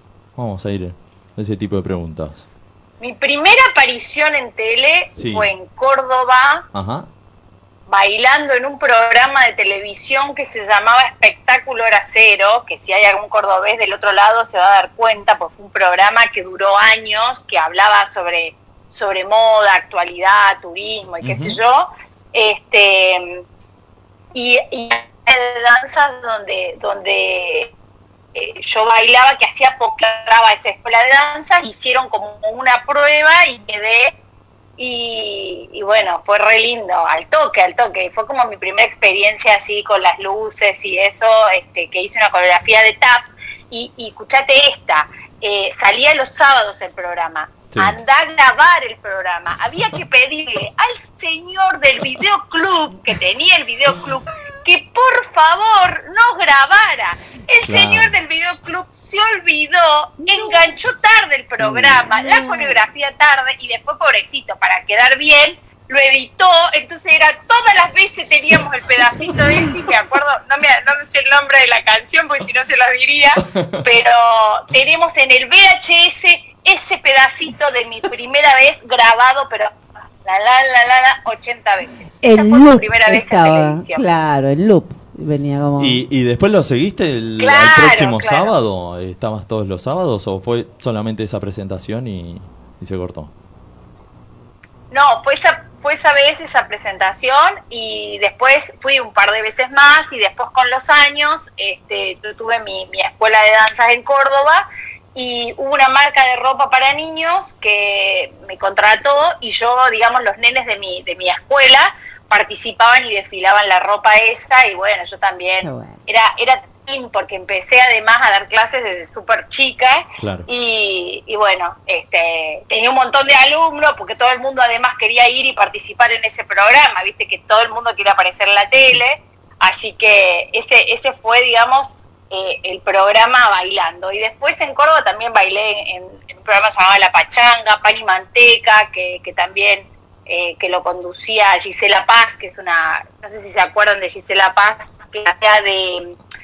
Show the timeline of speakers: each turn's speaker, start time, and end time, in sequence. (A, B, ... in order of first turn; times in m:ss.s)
0:00.4-0:02.5 A
0:03.0-0:06.7 B
0:05.2-0:05.5 A
0:06.7-0:07.1 A
0:07.9-0:23.4 B
0:21.2-0:21.6 A
0:24.3-0:27.7 B
0:28.4-0:34.1 B
0:34.8-1:24.1 B
0:47.7-0:48.0 A
0:57.7-0:58.1 A
1:00.2-1:00.7 C
1:01.6-1:02.0 A
1:01.8-1:02.8 C
1:13.4-1:13.8 A
1:22.2-1:26.0 C
1:25.8-1:33.3 A
1:27.4-1:28.5 B
1:34.9-2:26.2 B
1:55.6-1:56.0 C
2:00.2-2:00.5 A